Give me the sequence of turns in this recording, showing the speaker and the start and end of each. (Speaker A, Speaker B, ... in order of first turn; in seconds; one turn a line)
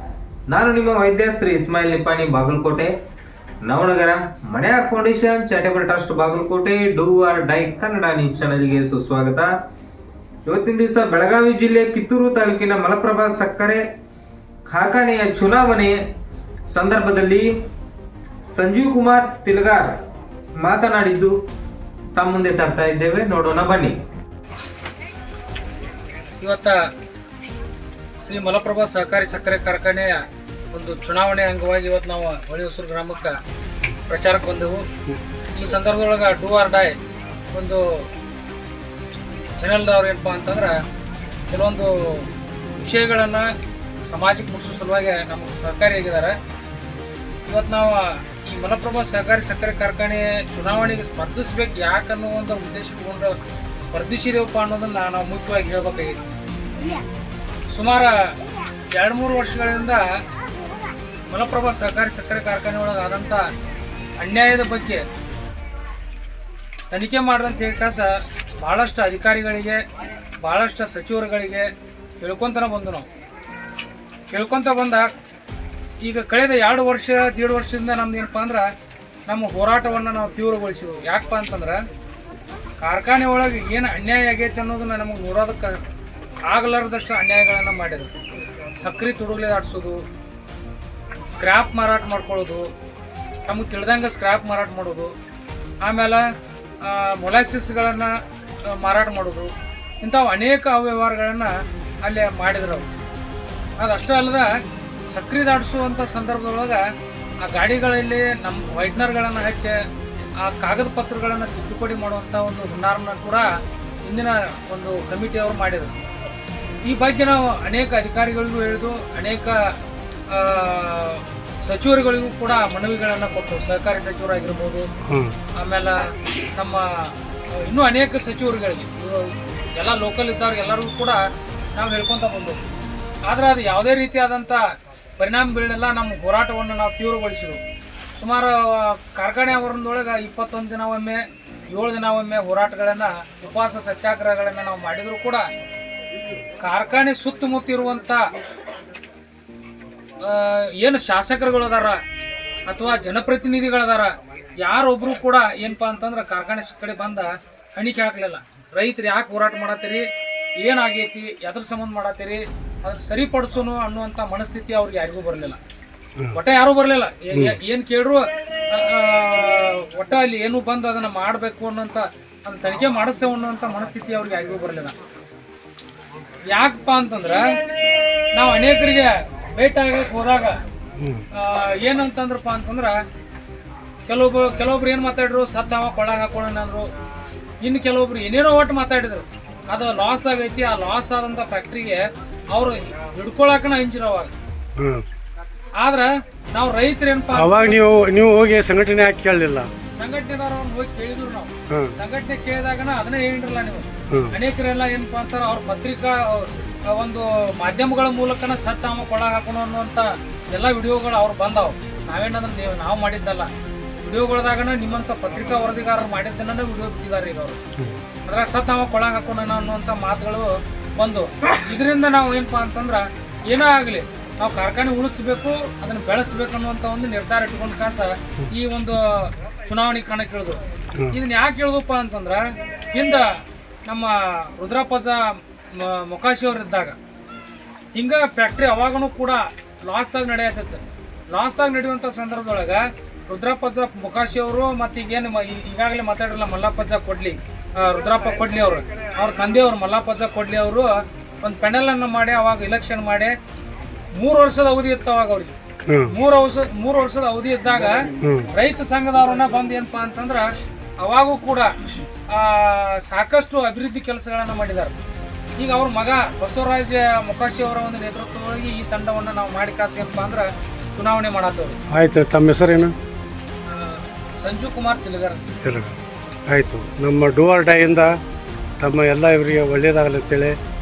Speaker A: 0.5-2.9
Speaker A: 3.6-9.5
Speaker A: 10.4-13.8
Speaker A: 14.7-16.0
Speaker A: 16.7-17.5
Speaker A: 18.5-20.0
Speaker A: 20.6-21.3
Speaker A: 22.1-24.0
Speaker B: 26.4-26.8
Speaker B: 28.2-33.4
Speaker B: 34.1-34.9
Speaker B: 35.5-37.0
Speaker B: 37.5-38.1
Speaker B: 39.6-40.8
Speaker B: 41.5-42.3
Speaker B: 42.8-43.5
Speaker B: 44.0-46.4
Speaker B: 47.5-56.2
Speaker B: 57.7-58.3
Speaker B: 58.9-60.0
Speaker B: 61.3-63.5
Speaker B: 64.2-65.0
Speaker B: 66.9-69.8
Speaker B: 70.4-73.1
Speaker B: 74.3-75.1
Speaker B: 76.0-78.7
Speaker B: 79.3-81.8
Speaker B: 82.8-85.8
Speaker B: 86.5-88.2
Speaker B: 88.8-90.0
Speaker B: 91.3-92.7
Speaker B: 93.4-95.1
Speaker B: 95.8-96.2
Speaker B: 96.8-98.1
Speaker B: 98.7-101.5
Speaker B: 102.0-102.9
Speaker B: 103.8-104.5
Speaker B: 105.1-106.8
Speaker B: 107.4-109.8
Speaker B: 110.4-113.5
Speaker B: 114.1-116.0
Speaker B: 116.8-119.7
Speaker B: 120.3-124.9
Speaker C: 125.1-125.3
Speaker B: 125.6-131.2
Speaker B: 131.7-132.6
Speaker B: 133.3-137.6
Speaker B: 138.2-145.5
Speaker B: 146.6-148.2
Speaker B: 150.2-152.0
Speaker B: 152.7-160.0
Speaker B: 160.6-165.6
Speaker B: 166.3-174.9
Speaker C: 167.3-167.6
Speaker B: 176.5-177.4
Speaker B: 178.3-180.6
Speaker C: 181.0-181.2
Speaker B: 181.3-183.0
Speaker B: 184.1-186.9
Speaker B: 187.6-192.0
Speaker B: 192.5-194.3
Speaker C: 194.8-195.0
Speaker B: 195.8-197.8
Speaker C: 197.3-199.7
Speaker B: 199.9-213.5
Speaker B: 214.0-217.6
Speaker B: 218.2-230.6
Speaker B: 231.1-233.3
Speaker B: 233.9-236.9
Speaker B: 237.9-250.9
Speaker B: 251.4-253.3
Speaker B: 254.2-255.5
Speaker C: 255.9-256.1
Speaker B: 256.1-261.7
Speaker C: 258.2-258.5
Speaker B: 262.3-264.9
Speaker B: 265.6-271.8
Speaker C: 271.9-272.9
Speaker B: 273.7-275.4
Speaker C: 275.6-278.1
Speaker C: 278.8-280.6